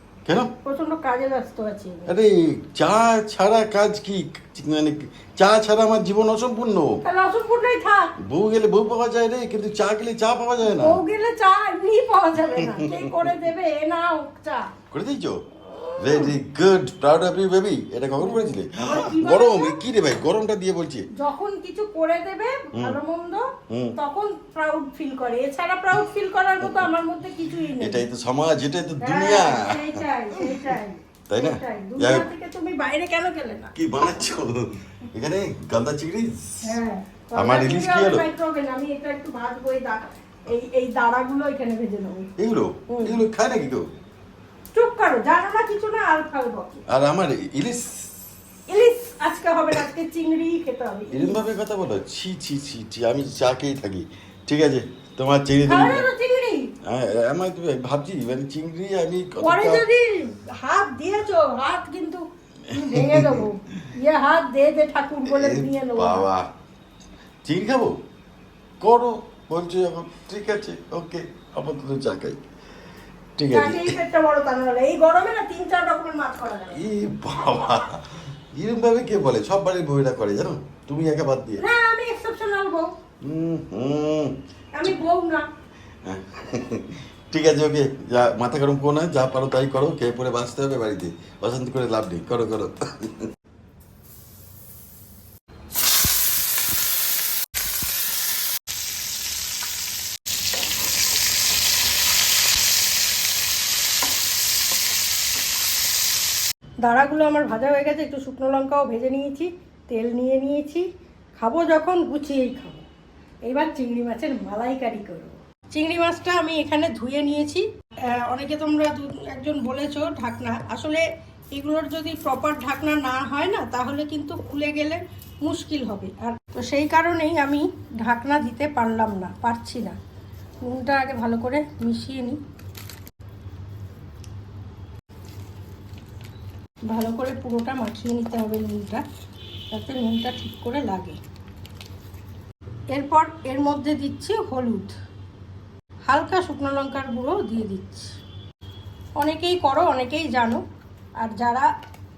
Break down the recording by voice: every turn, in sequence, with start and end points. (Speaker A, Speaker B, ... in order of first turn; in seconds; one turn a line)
Speaker A: 0.2-0.5
Speaker B: 0.6-2.1
Speaker A: 2.1-7.0
Speaker B: 7.0-8.1
Speaker A: 8.2-11.0
Speaker B: 10.7-14.7
Speaker A: 12.5-13.3
Speaker A: 14.9-15.4
Speaker B: 15.7-16.3
Speaker A: 16.0-21.1
Speaker B: 18.2-19.8
Speaker B: 21.1-28.0
Speaker A: 23.7-23.9
Speaker A: 27.8-30.7
Speaker B: 29.0-33.7
Speaker A: 31.3-32.3
Speaker A: 33.7-36.8
Speaker B: 36.6-42.2
Speaker A: 37.3-38.3
Speaker A: 42.4-43.9
Speaker B: 42.9-43.2
Speaker B: 44.7-46.8
Speaker A: 46.9-48.1
Speaker B: 48.7-51.5
Speaker A: 51.1-56.0
Speaker B: 55.6-56.7
Speaker A: 56.8-59.9
Speaker B: 59.4-66.2
Speaker A: 62.7-63.5
Speaker A: 65.2-66.5
Speaker A: 67.4-68.0
Speaker A: 68.8-72.4
Speaker A: 73.4-74.0
Speaker B: 73.5-76.8
Speaker A: 76.7-81.6
Speaker B: 81.6-82.9
Speaker A: 83.2-84.4
Speaker B: 84.7-85.4
Speaker A: 86.0-93.3
Speaker B: 106.8-110.8
Speaker B: 111.4-112.8
Speaker B: 113.5-117.7
Speaker B: 118.2-121.0
Speaker B: 121.5-129.9
Speaker B: 130.6-132.4
Speaker B: 136.9-139.0
Speaker B: 139.7-141.2
Speaker B: 142.9-144.9
Speaker B: 146.1-148.2
Speaker B: 149.2-150.6
Speaker B: 151.2-151.7